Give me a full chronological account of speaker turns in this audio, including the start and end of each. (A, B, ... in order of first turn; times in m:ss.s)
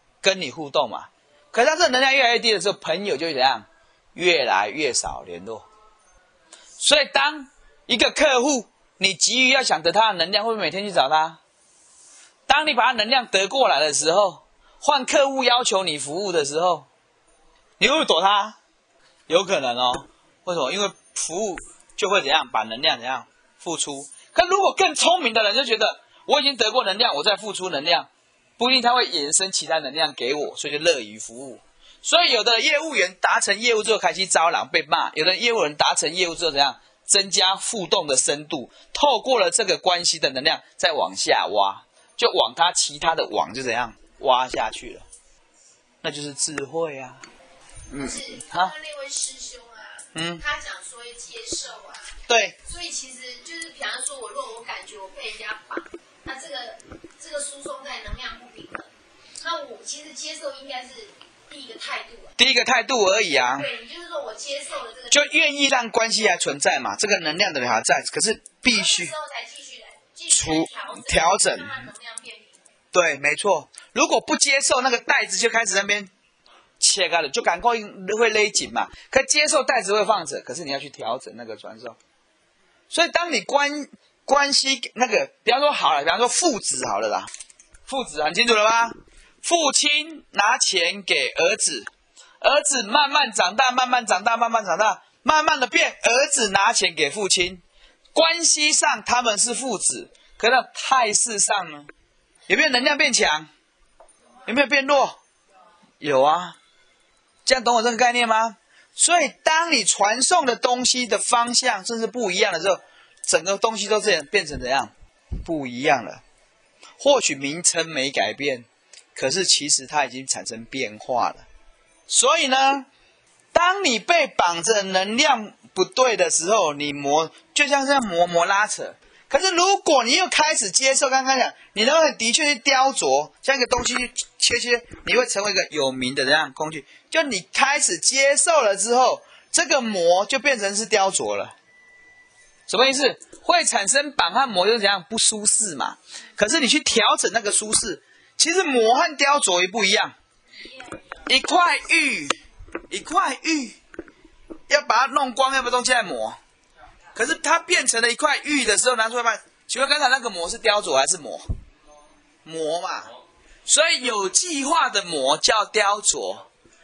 0:00.2-0:05.7 A
0:06.8-0:11.4 A
0:12.5-0:16.9 A
0:17.8-0:18.6 A
0:19.3-0:45.0 A
0:46.0-0:47.2 A
0:47.9-0:48.7 A
0:47.9-0:58.9 B
0:50.1-0:50.4 A
0:52.3-0:52.6 A
0:59.4-1:02.4 B
1:02.4-1:03.7 A
1:03.5-1:05.3 B
1:05.1-1:09.1 A
1:08.7-1:12.6 B
1:10.3-1:11.8 A
1:12.9-1:16.1 A
1:16.8-1:22.0 A
1:22.9-1:27.3 A
1:27.9-1:31.9 A
1:32.4-1:37.6 A
1:38.2-1:41.9 A
1:42.5-1:43.5 A
1:44.5-1:45.2 A
1:46.0-1:46.6 A
1:47.5-1:54.9 A
1:55.4-1:56.2 A
1:57.0-2:01.4 A
2:02.1-2:02.9 A
2:03.5-2:21.5 A
2:22.7-2:30.2 A
2:31.3-2:32.4 A
2:32.9-2:33.8 A
2:34.7-2:36.4 A
2:37.2-2:41.5 A
2:42.4-2:43.1 A
2:43.7-2:46.5 A